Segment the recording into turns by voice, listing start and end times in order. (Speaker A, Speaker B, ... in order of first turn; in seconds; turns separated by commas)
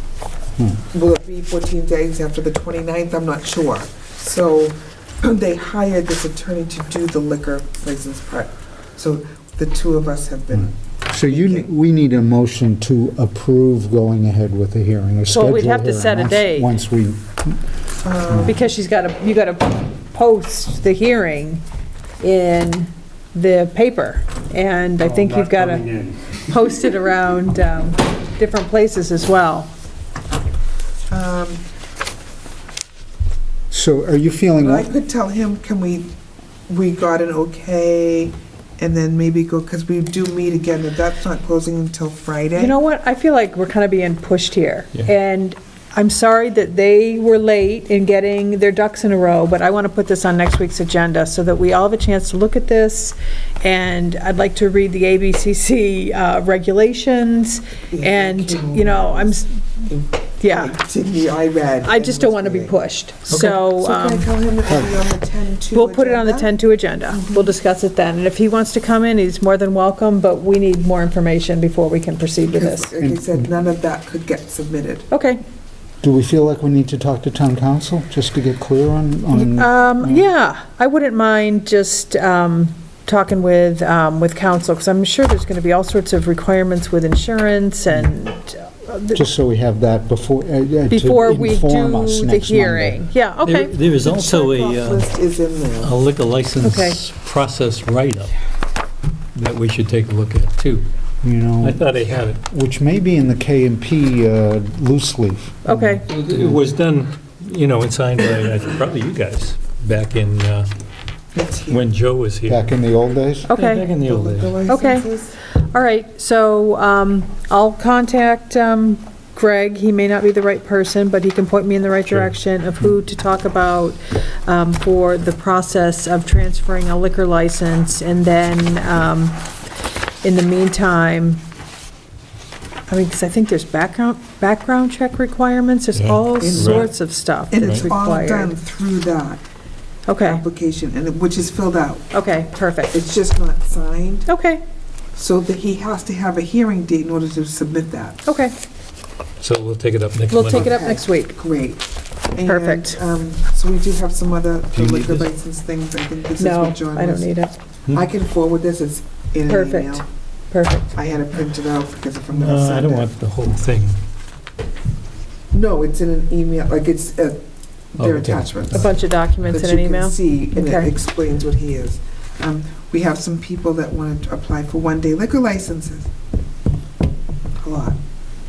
Speaker A: 0.9-10.7, Speaker B: 10.5-17.6, Speaker A: 11.2-11.7, Speaker C: 15.3-16.7, Speaker A: 18.0-18.6, Speaker C: 18.4-21.6, Speaker C: 22.2-29.7, Speaker B: 25.1-26.1, Speaker A: 31.1-31.6, Speaker B: 33.7-34.9, Speaker A: 34.6-36.1, Speaker A: 36.7-42.7, Speaker C: 42.5-59.6, Speaker A: 57.9-62.8, Speaker C: 60.4-60.8, Speaker C: 61.8-64.3, Speaker D: 63.3-63.6, Speaker A: 63.7-66.5, Speaker C: 65.7-72.9, Speaker A: 67.1-67.5, Speaker A: 72.5-75.1, Speaker B: 73.0-73.3, Speaker C: 75.1-75.4, Speaker B: 76.0-80.2, Speaker C: 79.3-89.2, Speaker B: 89.1-93.0, Speaker C: 90.9-93.7, Speaker D: 93.4-95.1, Speaker A: 94.0-95.9, Speaker D: 95.8-98.3, Speaker C: 96.6-97.0, Speaker D: 99.3-100.8, Speaker B: 101.2-106.3, Speaker D: 101.6-102.4, Speaker C: 105.7-106.0, Speaker D: 106.0-110.7, Speaker A: 111.3-111.8, Speaker D: 111.7-112.6, Speaker B: 112.5-113.5, Speaker C: 113.5-113.9, Speaker D: 113.5-114.6, Speaker A: 114.0-115.4, Speaker C: 114.6-115.1, Speaker C: 115.7-129.4, Speaker C: 130.2-131.4, Speaker C: 132.9-138.5, Speaker D: 135.9-136.9, Speaker A: 136.4-136.9, Speaker A: 137.5-139.4, Speaker D: 137.6-137.9, Speaker C: 140.1-140.4, Speaker A: 140.2-142.1, Speaker C: 142.1-142.9, Speaker A: 142.9-144.3, Speaker C: 144.3-144.6, Speaker A: 145.1-148.2, Speaker C: 148.2-148.5, Speaker D: 149.4-150.8, Speaker C: 150.3-151.3, Speaker A: 150.4-157.3, Speaker C: 152.4-153.0, Speaker D: 154.7-155.3, Speaker C: 156.4-157.5, Speaker A: 157.9-160.0, Speaker C: 159.5-160.9, Speaker A: 160.9-163.1, Speaker D: 162.3-164.0, Speaker A: 165.5-167.4, Speaker A: 167.9-168.9, Speaker D: 168.0-168.8, Speaker C: 168.7-170.9, Speaker A: 169.5-176.1, Speaker A: 177.6-178.0